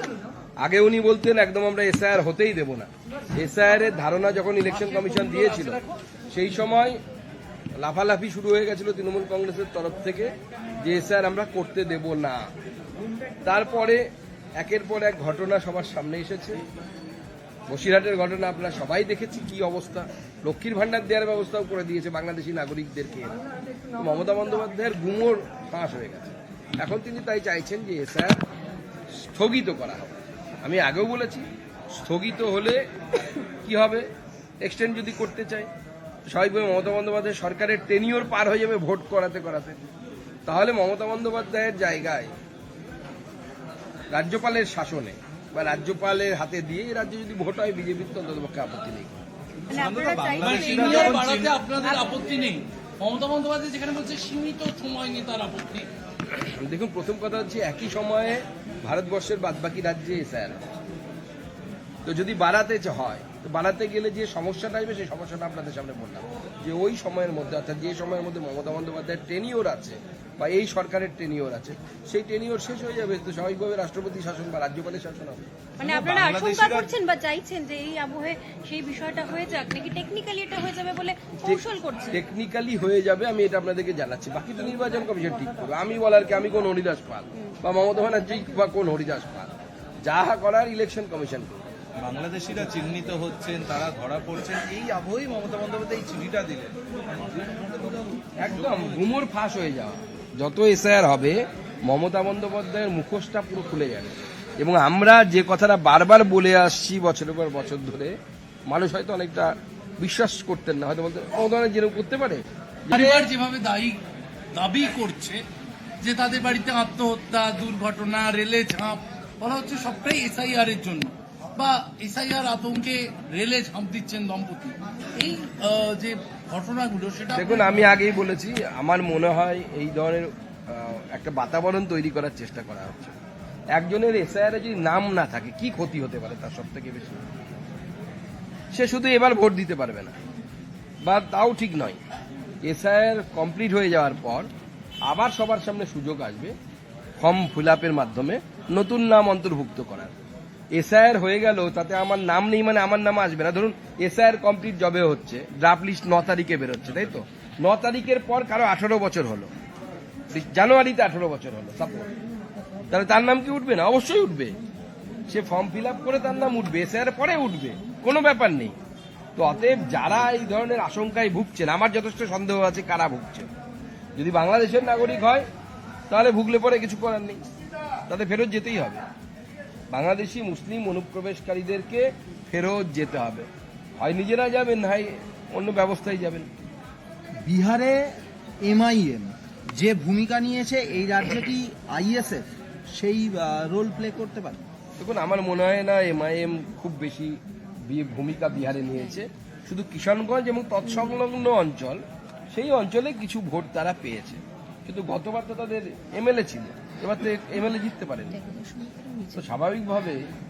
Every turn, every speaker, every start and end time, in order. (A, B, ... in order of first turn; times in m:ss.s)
0:00.6-0:07.0 A
0:04.7-0:05.9 B
0:07.8-0:12.4 A
0:13.4-0:14.0 A
0:14.6-0:16.6 A
0:17.7-0:23.3 A
0:24.0-0:28.4 A
0:29.2-0:32.8 A
0:33.5-0:34.1 A
0:34.6-0:35.7 A
0:36.3-0:39.8 A
0:40.4-0:42.3 A
0:44.1-0:49.2 A
0:49.7-0:52.1 C
0:49.7-0:51.6 D
0:50.4-0:55.9 B
0:56.3-1:00.8 A
1:02.0-1:15.4 A
1:15.8-1:22.2 C
1:15.8-1:16.9 D
1:21.4-1:29.5 A
1:30.1-1:31.6 A
1:32.0-1:39.0 D
1:38.4-1:48.2 A
1:48.7-1:53.2 A
1:52.9-1:54.0 B
1:54.6-1:55.4 B
1:56.0-2:07.9 B
2:07.3-2:13.1 A
2:13.8-2:17.2 A
2:18.7-2:20.1 A
2:21.0-2:22.0 A
2:22.6-2:24.5 A
2:25.0-2:26.5 A
2:27.2-2:30.1 A
2:30.7-2:39.5 A
2:40.3-2:42.1 A
2:42.9-2:44.5 A
2:45.3-2:48.8 A
2:49.4-2:53.5 A
2:54.2-2:55.4 A
2:56.1-2:57.4 A
2:58.1-2:59.0 A
2:59.9-3:03.5 A
3:04.0-3:06.5 A
3:07.4-3:08.0 E
3:08.6-3:14.6 E
3:15.0-3:22.0 A
3:22.5-3:28.4 A
3:28.3-3:29.4 C
3:29.3-3:30.2 A